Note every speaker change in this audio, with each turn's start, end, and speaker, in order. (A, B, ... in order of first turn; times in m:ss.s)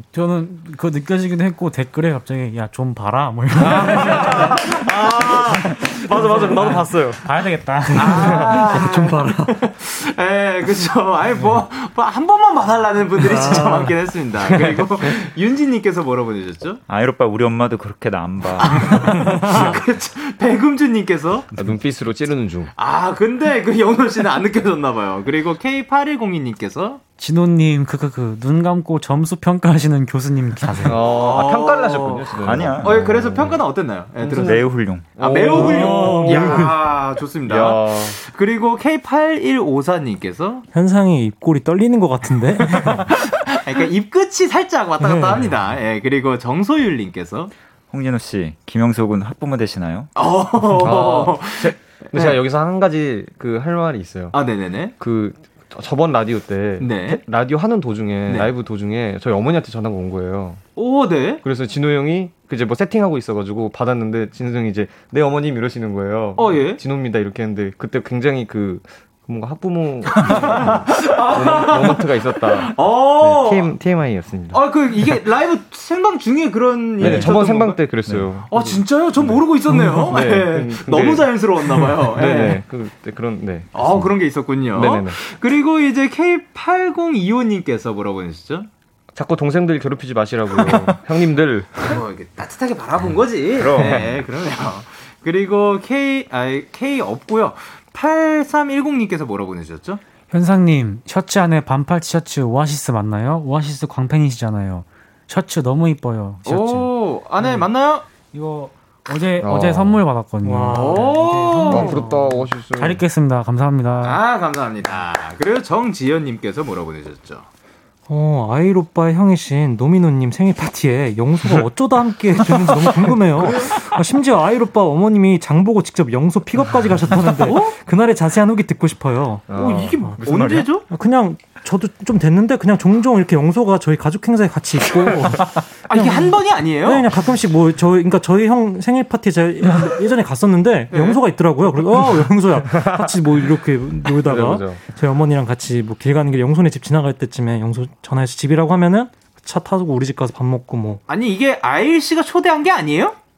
0:00.1-0:04.7 A
0:03.6-0:08.4 B
0:03.7-0:06.7 C
0:06.2-0:08.5 A
0:07.9-0:16.8 C
0:08.2-0:09.6 D
0:13.2-0:13.9 D
0:14.4-0:15.1 B
0:16.9-0:19.7 E
0:18.6-0:21.5 C
0:19.0-0:19.5 D
0:21.6-0:22.7 B
0:22.8-0:27.0 C
0:27.2-0:31.0 A
0:30.8-0:33.6 B
0:30.9-0:40.6 C
0:32.4-0:33.2 E
0:34.2-0:34.6 B
0:34.3-0:35.6 E
0:35.2-0:38.2 B
0:35.5-0:36.7 D
0:40.7-0:43.2 D
0:42.6-0:47.5 C
0:45.0-0:45.4 D
0:47.9-0:50.1 E
0:50.2-0:52.4 C
0:50.8-0:54.4 B
0:54.3-0:54.9 C
0:55.0-1:00.6 B
0:56.8-0:57.2 C
1:00.8-1:01.4 C
1:01.4-1:14.6 B
1:06.4-1:06.8 C
1:10.1-1:13.8 C
1:14.5-1:17.8 C
1:17.0-1:24.1 B
1:17.0-1:17.3 E
1:18.1-1:18.3 E
1:18.5-1:22.6 C
1:23.7-1:28.7 C
1:24.7-1:25.2 B
1:29.1-1:32.0 B
1:31.8-1:40.0 C
1:33.6-1:34.2 E
1:40.3-1:47.7 A
1:46.4-1:48.0 C
1:48.3-1:54.2 A
1:49.4-1:50.0 B
1:50.4-1:51.0 D
1:50.7-1:52.0 C
1:51.7-1:53.0 B
1:54.0-1:57.5 C
1:58.1-2:31.0 D
2:03.4-2:03.8 C
2:07.4-2:07.7 C
2:09.5-2:10.6 B
2:09.6-2:10.8 C
2:15.9-2:17.0 C
2:20.9-2:21.2 C
2:22.7-2:23.2 B
2:24.1-2:24.8 B
2:31.1-2:33.2 C